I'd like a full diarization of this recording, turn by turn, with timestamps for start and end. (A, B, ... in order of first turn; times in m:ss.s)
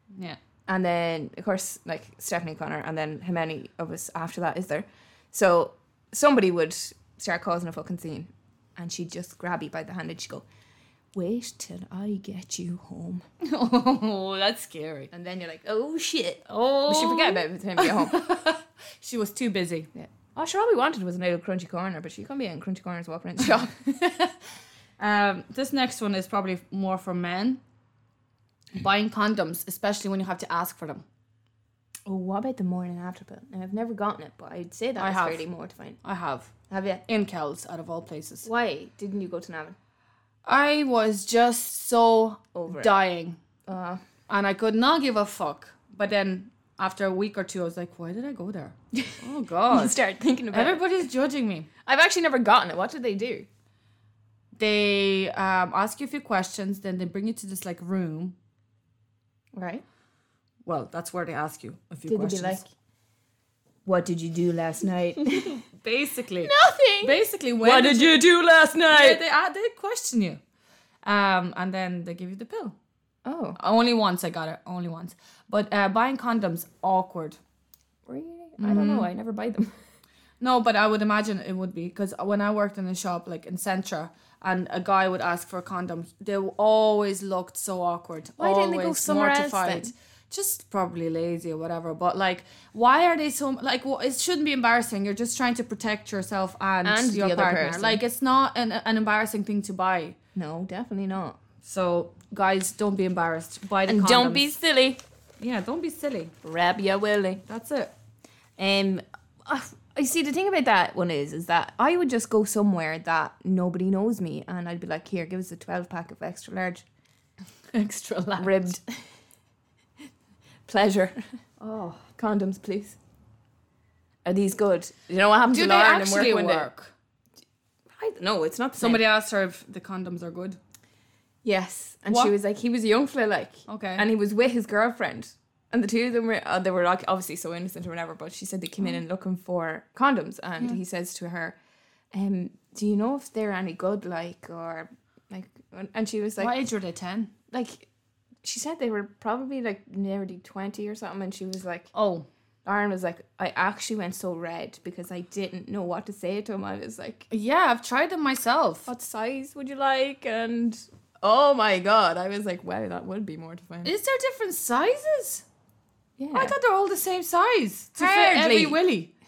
0:00.7-0:10.4 A
0:11.1-0:13.3 A
0:13.4-0:15.1 B
0:15.1-0:18.2 A
0:16.5-0:19.9 B
0:20.0-0:23.8 A
0:23.9-0:24.3 B
0:25.0-0:27.6 B
0:28.8-0:31.0 B
0:32.1-0:36.0 A
0:35.0-0:35.4 B
0:36.0-0:36.5 B
0:36.7-0:37.0 A
0:37.1-0:38.5 B
0:38.4-0:39.8 A
0:40.4-0:43.4 B
0:42.5-0:43.0 A
0:43.7-0:44.0 A
0:44.3-0:50.0 B
0:49.7-0:50.8 A
0:50.5-0:51.7 B
0:51.9-0:53.5 A
0:54.6-0:58.4 B
0:59.5-0:59.8 A
1:00.7-1:02.6 B
1:02.1-1:02.7 A
1:03.9-1:05.6 A
1:05.5-1:08.2 B
1:06.4-1:09.2 A
1:08.9-1:10.4 B
1:11.0-1:12.8 B
1:13.2-1:13.6 A
1:13.6-1:17.4 B
1:18.1-1:19.8 A
1:18.6-1:19.1 B
1:20.4-1:40.2 B
1:28.4-1:29.9 A
1:36.8-1:38.0 A
1:40.4-1:41.4 A
1:41.6-1:44.5 B
1:43.9-1:45.0 A
1:45.4-1:46.3 B
1:46.4-1:47.4 A
1:47.5-1:47.9 B
1:48.6-1:56.8 A
1:57.7-1:58.7 B
1:58.4-1:59.0 A
2:00.7-2:01.2 A
2:01.6-2:02.0 B
2:02.2-2:03.0 A
2:04.2-2:06.7 A
2:05.5-2:06.9 B
2:08.0-2:09.0 A
2:08.8-2:10.6 B
2:11.4-2:21.6 A
2:13.7-2:14.0 B
2:22.1-2:26.6 A
2:26.4-2:27.3 B
2:27.5-2:27.9 A
2:28.4-2:31.9 A
2:31.9-2:32.3 B
2:32.6-2:37.3 A
2:37.3-2:38.9 B
2:38.9-2:43.9 A
2:43.8-2:45.4 B
2:46.2-2:46.5 A
2:46.3-2:49.1 B
2:48.0-2:48.8 A